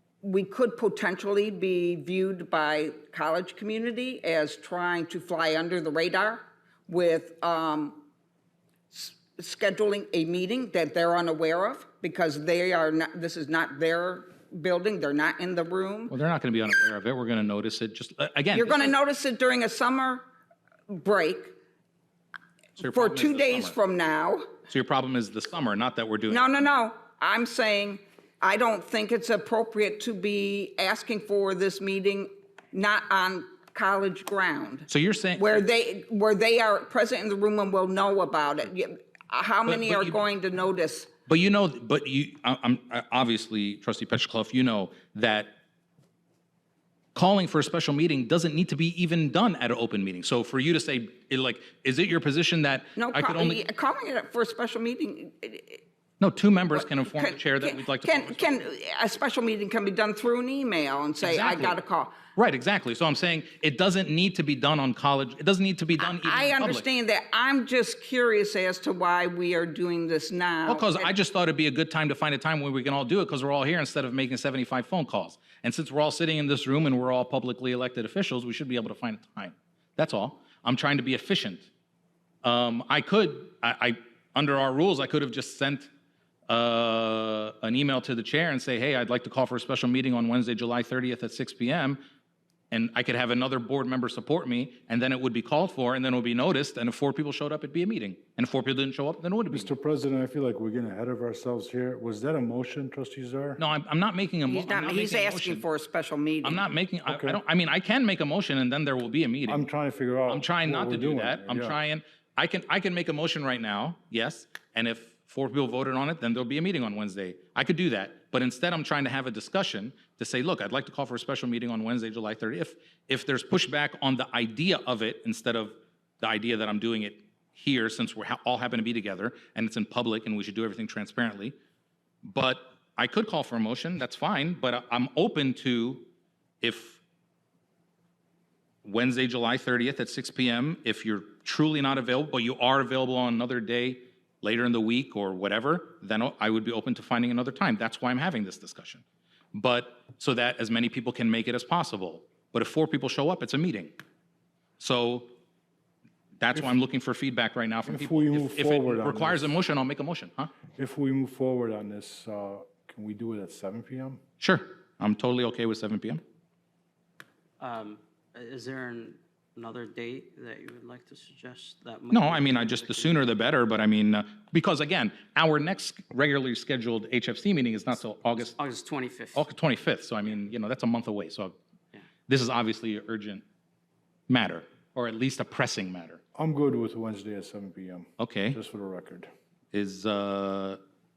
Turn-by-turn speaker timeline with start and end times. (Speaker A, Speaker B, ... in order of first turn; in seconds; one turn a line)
Speaker A: 0.2-8.0
Speaker A: 8.9-16.1
Speaker B: 16.1-18.9
Speaker A: 18.5-20.2
Speaker A: 20.9-21.6
Speaker B: 22.8-23.8
Speaker A: 22.8-24.5
Speaker B: 24.7-26.7
Speaker A: 26.3-41.1
Speaker B: 34.9-35.6
Speaker B: 39.7-40.2
Speaker B: 41.3-45.5
Speaker B: 47.1-53.6
Speaker A: 53.0-55.8
Speaker B: 56.2-58.6
Speaker A: 56.7-62.1
Speaker B: 61.2-61.8
Speaker B: 62.4-66.8
Speaker A: 66.0-71.1
Speaker B: 70.7-81.7
Speaker B: 82.4-85.9
Speaker B: 86.5-92.0
Speaker B: 92.7-99.7
Speaker C: 99.5-103.6
Speaker B: 103.6-105.6
Speaker A: 104.5-106.7
Speaker B: 106.4-109.7
Speaker C: 107.1-107.4
Speaker C: 109.5-111.8
Speaker B: 110.3-131.5
Speaker B: 132.2-136.1
Speaker B: 136.6-137.0
Speaker B: 138.8-149.0
Speaker B: 149.5-153.9
Speaker B: 154.8-155.3
Speaker B: 156.4-160.5
Speaker C: 157.9-159.5
Speaker C: 160.8-164.2
Speaker B: 164.4-166.2
Speaker D: 167.6-173.3
Speaker B: 172.1-178.6
Speaker D: 178.6-179.4
Speaker B: 179.3-181.5
Speaker B: 182.3-183.4
Speaker B: 184.3-186.2
Speaker C: 186.3-189.3
Speaker B: 188.2-188.6
Speaker B: 189.7-190.8